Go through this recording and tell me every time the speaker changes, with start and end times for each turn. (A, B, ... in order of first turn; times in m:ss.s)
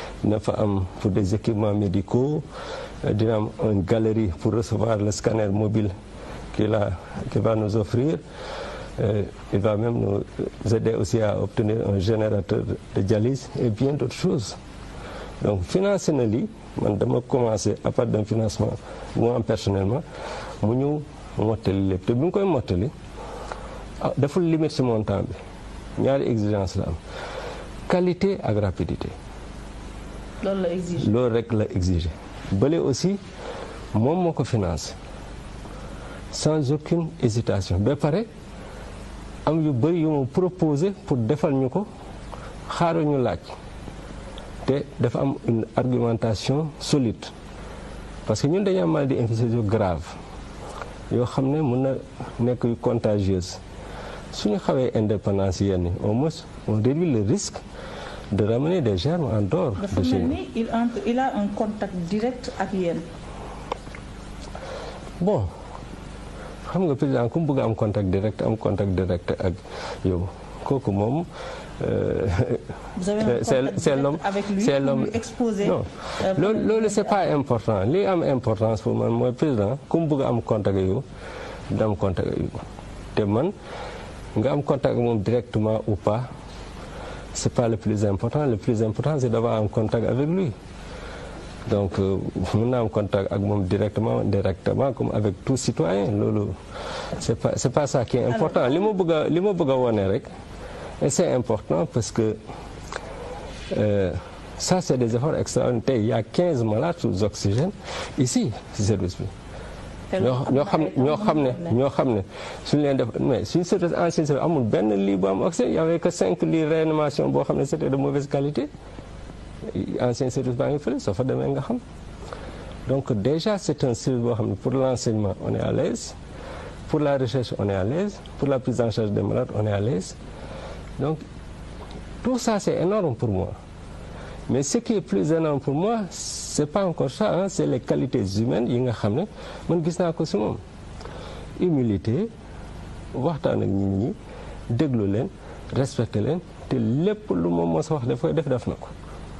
0:00.2-0:02.4 A
0:03.0-0:05.9 A
0:06.5-0:08.2 A
0:09.0-0:14.6 A
0:15.4-0:20.0 A
0:20.6-0:22.9 A
0:24.0-0:25.4 A
0:26.0-0:27.0 A
0:27.9-0:29.1 A
0:30.4-0:31.1 B
0:31.0-0:33.2 A
0:33.9-0:35.0 A
0:36.3-0:38.3 A
0:39.4-0:41.9 A
0:42.7-0:43.5 A
0:44.6-0:47.3 A
0:48.2-0:50.2 A
0:51.1-0:53.6 A
0:54.3-0:57.6 A
0:58.3-1:00.4 A
0:59.8-1:03.0 B
1:05.2-1:05.5 A
1:06.7-1:11.2 A
1:11.8-1:12.6 A
1:13.0-1:17.1 B
1:13.2-1:21.0 A
1:21.7-1:22.6 A
1:23.1-1:23.5 A
1:24.4-1:26.2 A
1:27.3-1:30.5 A
1:31.7-1:36.5 A
1:37.2-1:40.3 A
1:41.0-1:42.4 A
1:43.7-1:49.3 A
1:50.1-1:51.8 B
1:50.2-1:58.7 A
1:59.7-2:01.8 A
2:02.8-2:06.2 A
2:06.9-2:10.2 A
2:12.2-2:13.6 A
2:14.5-2:20.6 A
2:21.6-2:22.3 A
2:23.1-2:24.1 A
2:24.7-2:28.9 A